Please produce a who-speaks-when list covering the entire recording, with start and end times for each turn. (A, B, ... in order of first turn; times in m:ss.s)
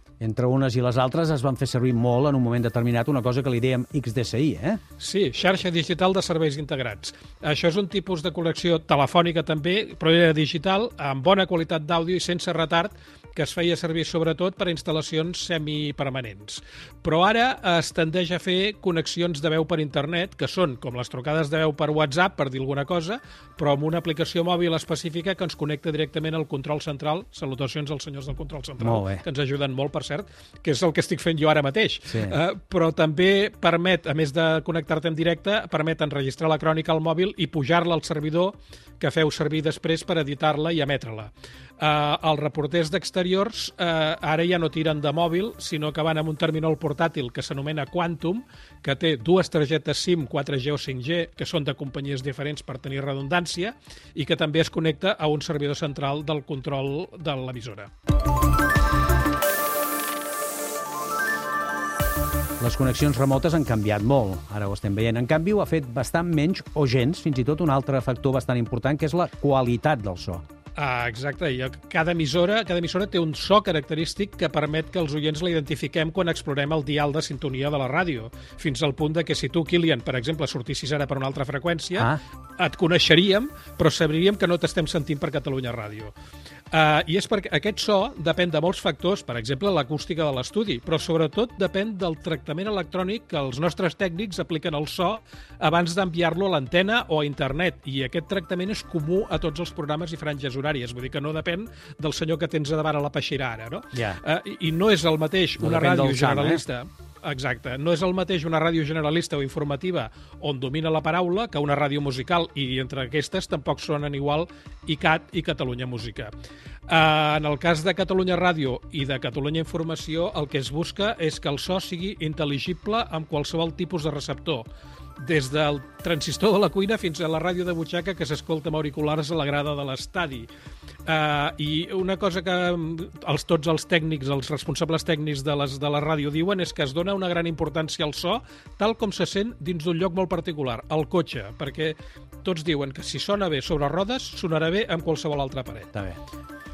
0:00.2-0:04.8 A
0:05.0-0:57.9 B
0:28.8-0:29.2 A
0:32.1-0:32.4 A
1:02.6-1:10.4 A
1:10.8-1:26.1 B
1:26.7-1:56.3 B
1:43.9-1:44.2 A
1:45.6-1:46.6 A
1:56.9-2:04.7 B
2:05.2-2:10.5 B
2:11.1-2:25.9 B